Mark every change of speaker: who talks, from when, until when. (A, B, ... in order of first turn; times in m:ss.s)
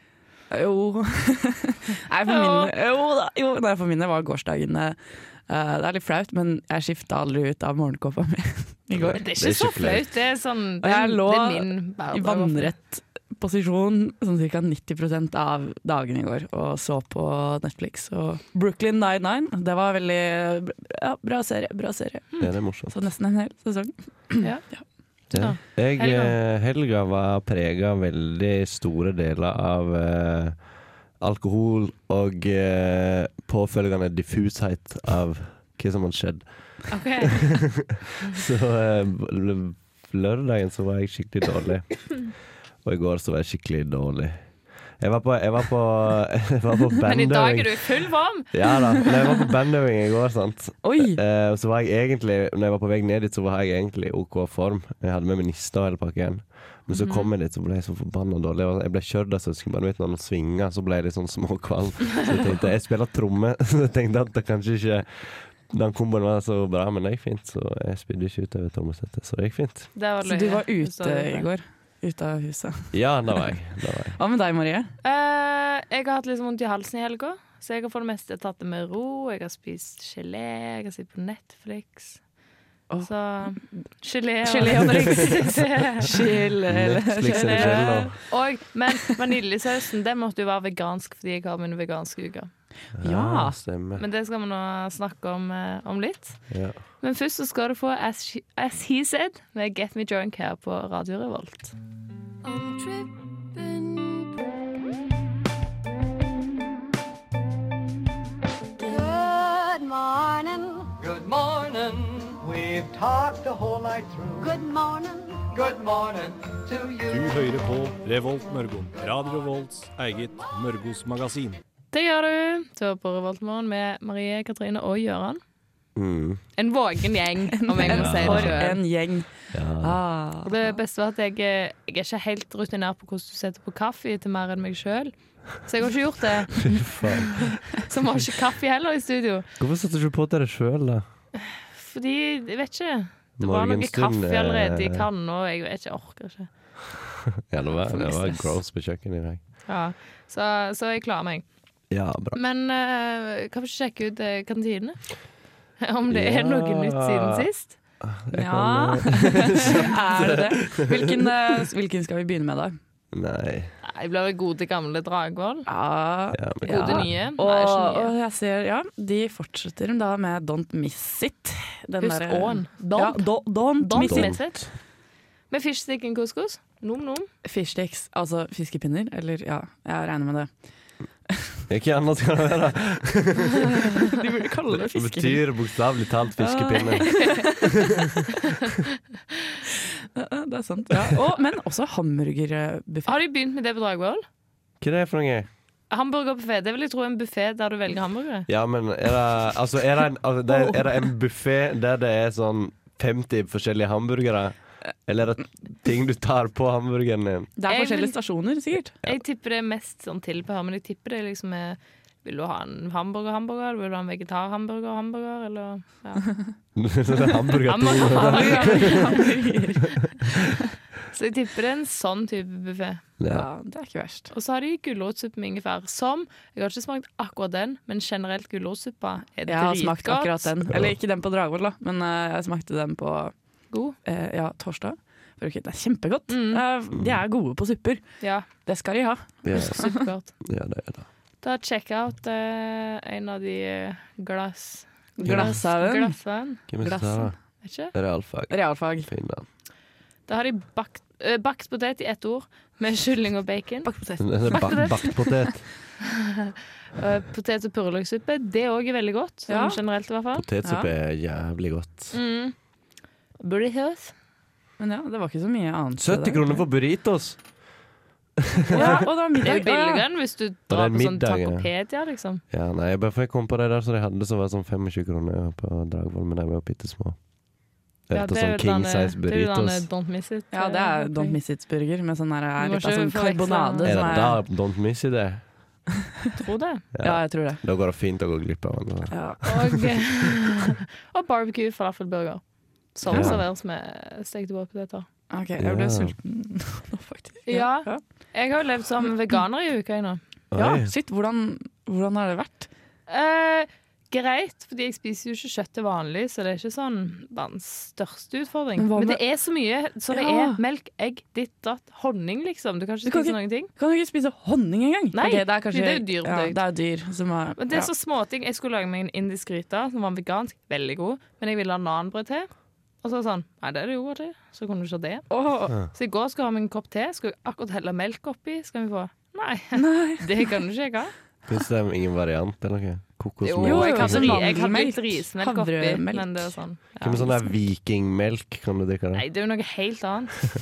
0:00.5-0:09.2 A
0:02.3-0:02.7 B
0:08.9-0:10.1 C
0:09.2-0:12.7 B
0:10.8-0:24.8 A
0:22.4-0:23.0 C
0:24.4-0:26.4 B
0:25.3-0:30.7 C
0:31.2-0:42.3 C
0:36.9-0:37.6 B
0:42.8-1:09.9 C
0:47.0-0:48.6 B
0:50.8-0:51.2 A
0:56.9-0:57.3 B
1:09.9-1:11.5 B
1:10.2-1:13.0 A
1:12.9-1:14.2 C
1:14.2-1:14.9 A
1:15.0-1:22.2 B
1:22.9-1:23.6 A
1:23.0-1:26.1 B
1:24.4-1:28.2 A
1:26.6-1:28.2 C
1:27.3-1:32.5 B
1:32.9-1:34.0 C
1:33.0-1:33.6 A
1:34.0-1:41.7 B
1:36.5-1:36.8 C
1:42.4-1:44.4 D
1:48.8-1:50.9 D
1:51.0-1:54.5 E
1:54.4-1:55.5 D
1:55.5-1:57.2 E
1:57.0-2:01.6 F
2:01.9-2:05.4 B
2:05.9-2:06.5 C
2:06.6-2:08.8 B
2:07.6-2:10.7 A
2:07.8-2:08.8 C
2:09.5-2:10.0 C
2:10.4-2:19.4 B
2:16.7-2:17.6 C
2:19.6-2:21.0 C
2:21.7-2:26.5 B
2:23.4-2:25.1 C
2:27.5-2:29.6 C
2:27.9-2:28.5 A
2:29.6-2:31.5 B
2:31.9-2:32.4 C
2:32.3-2:35.2 B
2:35.8-2:37.8 B
2:36.1-2:37.5 C
2:38.0-2:41.2 C
2:38.3-2:42.8 A
2:43.1-2:43.7 C
2:43.8-2:45.7 B
2:45.7-2:54.4 A
2:46.3-2:47.1 C
2:46.7-2:48.1 B
2:52.0-2:54.7 B
2:54.0-2:54.7 C
2:55.5-2:57.3 B
2:57.4-3:00.6 A
3:01.7-3:03.8 C
3:04.0-3:05.5 A
3:04.7-3:07.6 C
3:06.4-3:07.7 A
3:10.1-3:13.1 A
3:13.0-3:14.2 B
3:14.8-3:15.5 C
3:15.9-3:18.5 B
3:18.5-3:27.5 C
3:20.5-3:20.9 A
3:27.6-3:28.9 A
3:27.7-3:28.2 B
3:29.0-3:36.3 B
3:36.7-3:39.2 C
3:37.6-3:39.3 B
3:38.1-3:40.1 A
3:41.1-3:43.0 B
3:43.2-3:43.5 C
3:43.3-3:44.3 A
3:44.3-3:50.5 B
3:49.5-3:53.3 A
3:50.7-3:51.0 C
3:54.0-4:00.0 A
3:56.3-3:56.6 B
3:56.9-3:57.2 C
3:58.2-3:58.5 B
3:59.4-4:01.1 C
3:59.5-4:00.3 B
4:01.4-4:06.6 B
4:05.2-4:07.3 A
4:05.2-4:05.6 C
4:06.7-4:07.4 C
4:07.6-4:07.9 B
4:07.9-4:09.4 C
4:08.5-4:09.1 A
4:10.3-4:15.2 B
4:13.8-4:15.4 A
4:14.2-4:15.7 C
4:16.4-4:20.4 B
4:19.5-4:19.8 A
4:20.3-4:22.2 C
4:20.6-4:20.9 A
4:22.1-4:22.5 B
4:23.4-4:24.1 B
4:24.8-4:26.6 A
4:26.0-4:27.6 C
4:28.7-4:29.0 C
4:28.7-4:30.0 A
4:28.7-4:32.4 B
4:30.7-4:31.7 C
4:32.5-4:37.2 C
4:38.1-4:39.9 C
4:38.1-4:41.4 B
4:40.5-4:44.4 A
4:42.6-4:44.1 B
4:43.8-4:45.5 C
4:46.4-4:46.8 B
4:46.9-4:50.0 C
4:47.0-4:47.6 A
4:49.1-4:49.7 A
4:49.4-4:55.1 B
4:53.1-4:53.4 A
4:53.1-4:53.4 C
4:55.3-4:58.3 A
4:55.6-4:56.2 C
4:57.4-5:00.2 B
5:00.5-5:00.9 C
5:00.5-5:02.7 A
5:03.1-5:13.7 B
5:08.8-5:09.2 A
5:10.1-5:10.6 A
5:13.0-5:17.9 A
5:15.1-5:16.6 B
5:17.6-5:22.5 B
5:23.0-5:31.1 B
5:25.3-5:25.7 A
5:29.7-5:30.5 A
5:31.5-5:34.6 C
5:33.4-5:37.4 B
5:33.6-5:36.6 A
5:37.0-5:39.2 C
5:39.1-5:40.5 B